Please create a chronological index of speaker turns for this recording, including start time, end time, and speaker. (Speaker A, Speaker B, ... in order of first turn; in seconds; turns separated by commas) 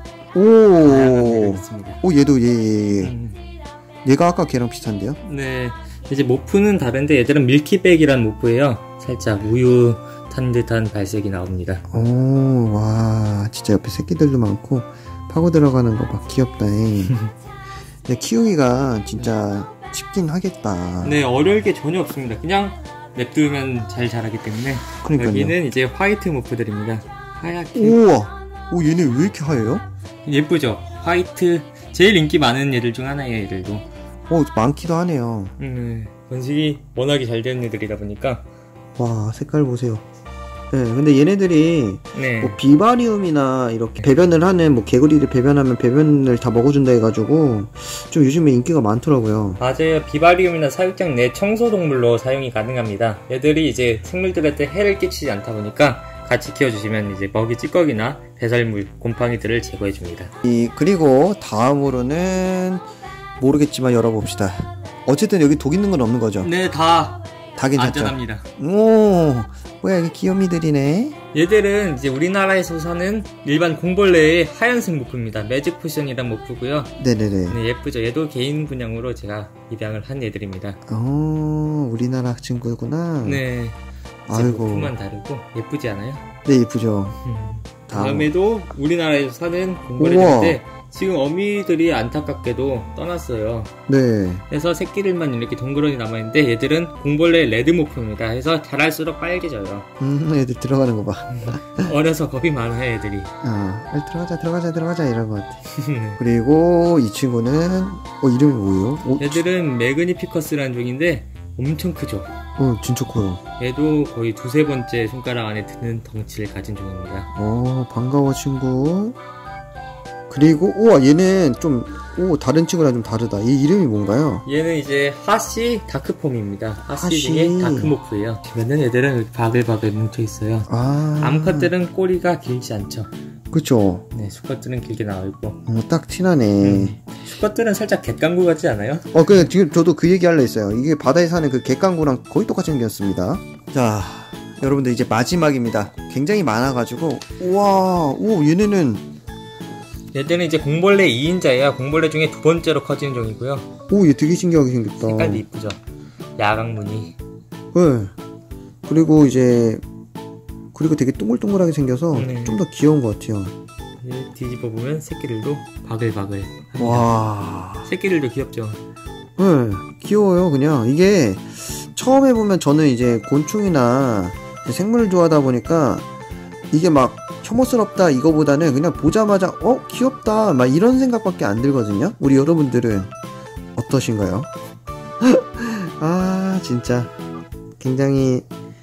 Speaker A: 0.3-3.1, Speaker B: 0.8-2.0, Speaker B: 3.0-3.4, Speaker A: 4.0-5.2, Speaker B: 5.2-11.8, Speaker A: 11.9-17.2, Speaker A: 18.1-21.2, Speaker B: 21.0-28.0, Speaker A: 25.0-25.6, Speaker A: 27.8-29.8, Speaker B: 30.2-33.9, Speaker A: 34.3-35.5, Speaker B: 35.6-38.4, Speaker A: 39.0-40.0, Speaker A: 40.7-49.6, Speaker B: 42.1-42.6, Speaker B: 44.0-44.3, Speaker B: 49.6-60.3, Speaker A: 60.4-62.8, Speaker A: 63.4-66.5, Speaker B: 66.4-67.2, Speaker A: 67.6-71.2, Speaker B: 67.8-68.5, Speaker B: 71.3-76.9, Speaker A: 77.0-77.6, Speaker B: 77.5-80.8, Speaker A: 80.9-83.4, Speaker B: 83.2-83.8, Speaker A: 84.3-85.0, Speaker B: 84.3-86.2, Speaker A: 86.5-87.2, Speaker B: 87.2-93.7, Speaker A: 87.9-88.3, Speaker A: 90.0-90.6, Speaker A: 93.9-94.5, Speaker B: 94.5-99.9, Speaker A: 100.0-101.9, Speaker B: 101.3-103.3, Speaker A: 103.4-105.6, Speaker B: 105.7-106.2, Speaker A: 106.2-109.5, Speaker B: 109.2-112.3, Speaker A: 112.6-113.4, Speaker B: 113.6-117.3, Speaker A: 117.3-119.2, Speaker A: 120.3-124.5, Speaker B: 124.5-133.1, Speaker A: 127.0-128.0, Speaker A: 130.7-131.7, Speaker A: 133.5-134.1, Speaker B: 134.1-135.6, Speaker A: 135.7-137.0, Speaker B: 136.6-139.2, Speaker A: 139.1-149.1, Speaker B: 150.1-153.7, Speaker A: 153.9-155.4, Speaker B: 155.0-155.8, Speaker B: 156.4-157.2, Speaker A: 157.7-158.1, Speaker A: 158.8-159.8, Speaker A: 160.7-163.5, Speaker B: 162.2-162.6, Speaker B: 164.0-167.1, Speaker A: 166.8-167.9, Speaker B: 167.8-168.8, Speaker A: 169.4-176.1, Speaker A: 176.7-183.1, Speaker A: 183.8-184.5, Speaker A: 185.2-187.1, Speaker A: 187.8-188.5